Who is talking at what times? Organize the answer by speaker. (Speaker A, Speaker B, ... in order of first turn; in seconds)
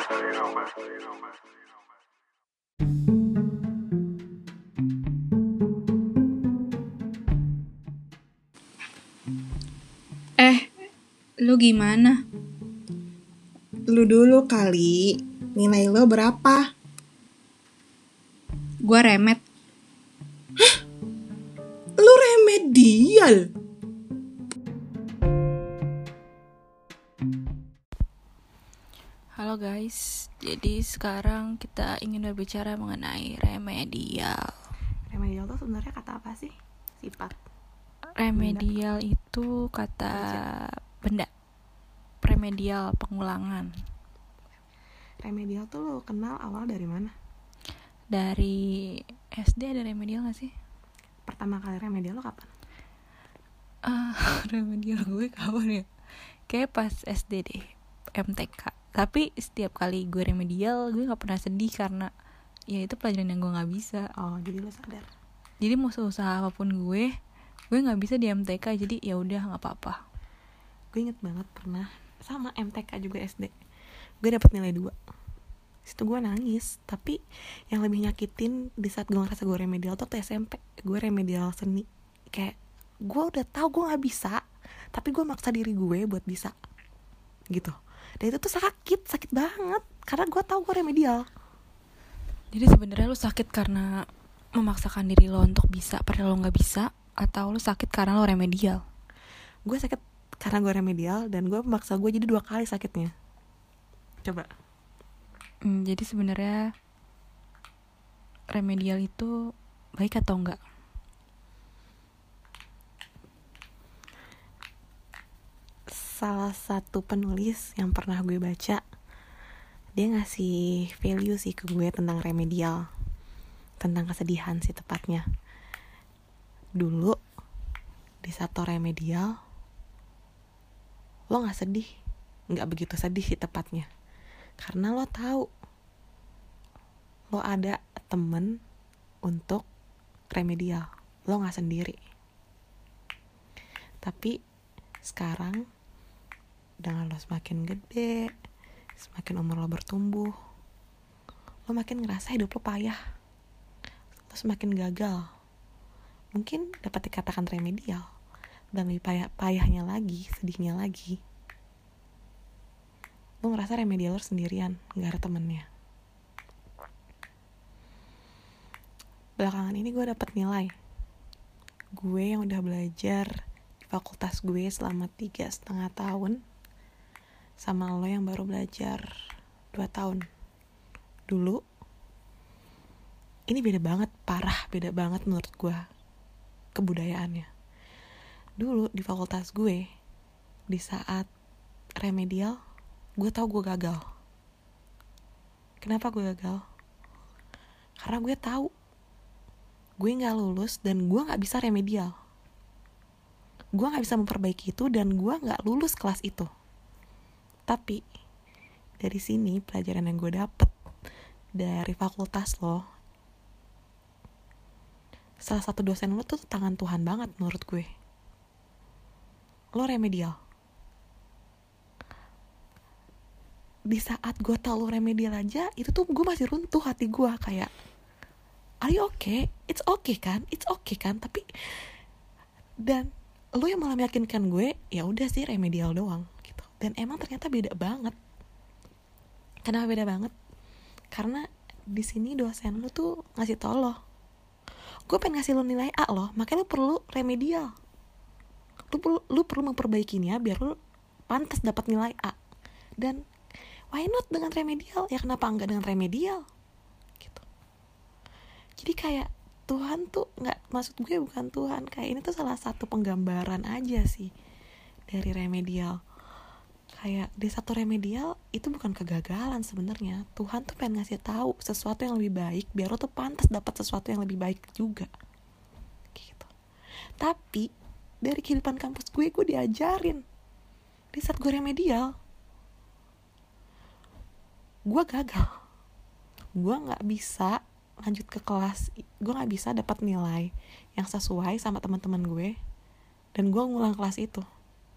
Speaker A: 10.4-10.7, 11.4-12.2, 18.8-19.4, 29.4-34.5, 38.2-41.3, 42.2-43.7, 48.1-50.5, 53.8-55.9, 56.5-62.1, 62.7-64.1, 65.6-67.1, 67.7-70.0, 92.5-93.9, 94.6-98.8, 105.7-106.6, 108.5-109.3, 110.0-110.6
Speaker B: 13.9-16.6, 22.0-23.5
Speaker C: 35.1-37.4, 38.3-38.7, 40.1-40.4, 45.2-47.1, 51.2-52.5, 64.2-65.1, 70.9-73.5, 74.2-75.0, 75.8-77.2, 77.7-84.4, 84.9-86.5, 87.5-91.2, 99.7-103.1, 115.9-118.8, 119.9-122.9, 123.8-125.2, 126.8-127.2, 128.2-129.3, 131.3-131.9, 132.5-133.9, 134.6-135.5, 137.3-138.5, 139.2-139.6, 140.3-142.0, 144.0-144.3, 145.0-145.6, 146.8-148.3, 149.0-150.3, 151.7-153.0, 154.3-155.2, 156.3-158.1, 158.7-161.2, 163.4-165.7, 169.4-170.7, 171.9-173.3, 173.9-176.4, 177.6-179.1, 179.7-180.2, 181.3-181.6, 183.5-185.8, 186.8-187.5, 188.6-189.8, 190.7-191.3, 192.0-192.6, 193.2-194.0, 195.8-196.6, 198.0-198.7, 200.0-202.1, 203.7-206.5, 207.7-208.0, 209.0-210.7, 211.6-212.8, 215.4-217.9, 219.8-220.3, 223.9-227.7, 228.8-231.4, 232.8-238.1, 239.6-240.3, 241.1-244.0, 245.1-247.7, 248.9-250.7, 251.3-252.4, 253.9-256.4, 258.8-264.3, 265.1-265.9, 266.9-275.1, 276.1-276.5, 277.2-277.7, 278.2-280.2, 281.1-282.1, 284.9-285.5, 286.6-292.5, 293.4-294.4